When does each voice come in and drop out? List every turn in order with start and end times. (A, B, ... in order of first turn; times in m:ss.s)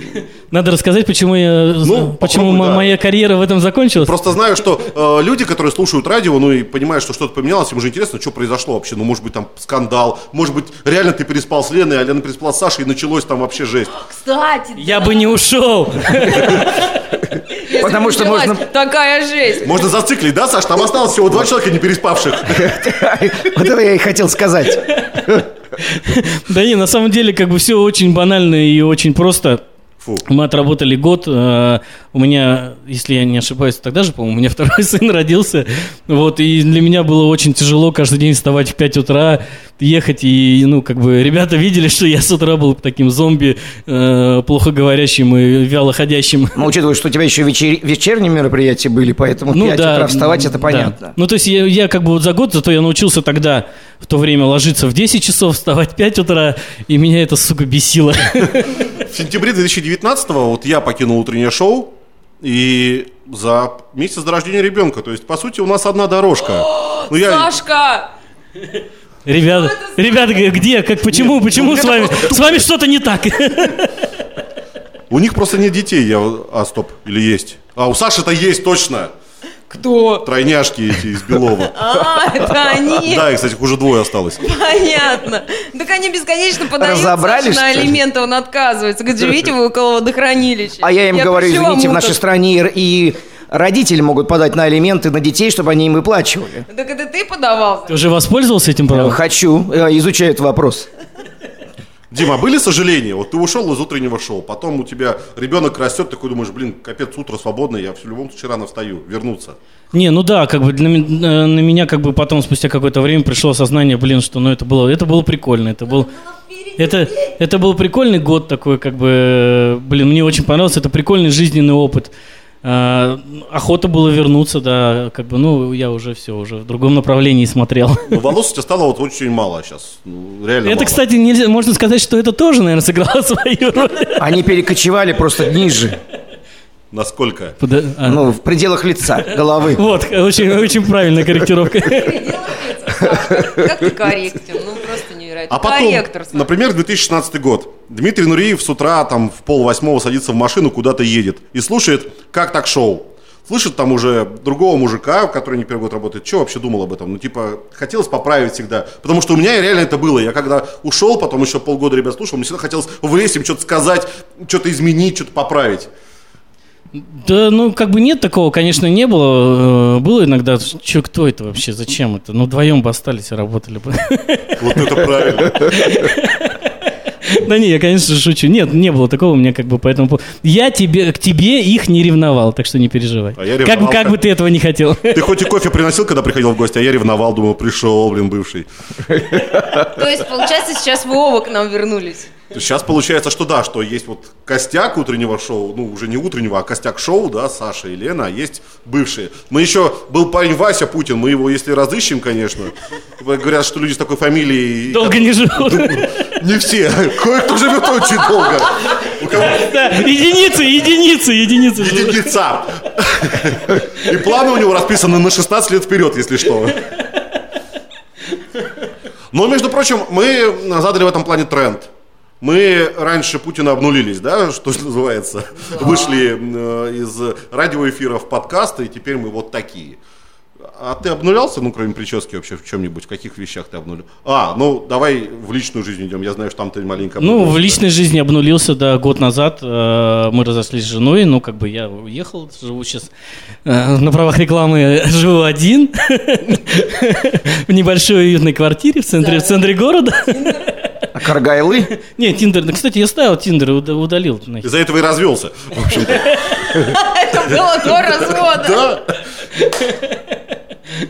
0:00.5-0:04.1 A
0:01.8-0:02.9 B
0:04.0-0:13.9 B
0:13.9-0:15.2 C
0:14.8-0:16.7 A
0:17.6-0:19.9 C
0:17.7-0:18.6 D
0:19.6-0:22.8 B
0:22.5-0:25.5 D
0:25.8-0:29.6 A
0:30.2-0:46.6 A
0:46.5-0:51.1 D
0:49.5-0:58.8 A
0:59.0-1:07.6 B
1:06.6-1:08.1 C
1:09.2-1:14.0 A
1:09.5-1:10.3 C
1:11.1-1:12.7 B
1:15.1-1:19.1 B
1:19.7-1:20.2 C
1:20.2-1:21.7 B
1:21.7-1:23.3 C
1:23.0-1:24.4 B
1:24.4-1:32.2 C
1:26.8-1:28.0 D
1:30.8-1:36.6 D
1:36.7-1:38.0 C
1:37.9-1:39.2 A
1:38.9-1:40.9 D
1:42.1-1:49.6 B
1:49.9-1:56.1 A
1:56.8-2:02.1 A
2:02.6-2:08.2 A
2:08.1-2:11.0 B
2:10.6-2:14.3 A
2:14.2-2:16.0 D
2:16.9-2:17.6 B
2:17.6-2:18.2 A
2:18.0-2:19.8 D
2:19.7-2:22.3 A
2:21.8-2:26.5 C
2:25.5-2:45.9 B
2:46.9-2:56.7 A
2:54.6-2:56.0 B
2:57.2-3:05.2 A
3:03.4-3:04.2 B
3:05.1-3:08.7 B
3:09.7-3:12.3 C
3:12.5-3:29.7 B
3:24.9-3:26.2 A
3:29.4-3:32.3 A
3:31.8-3:36.8 B
3:39.3-3:50.0 B
3:45.7-3:46.1 C
3:50.7-3:57.8 B
3:57.2-4:03.1 A
4:03.6-4:10.7 A
4:09.2-4:09.6 C
4:11.1-4:11.9 D
4:12.0-4:14.6 A
4:14.6-4:16.9 B
4:16.8-4:19.0 C
4:18.5-4:19.0 B
4:19.6-4:20.4 A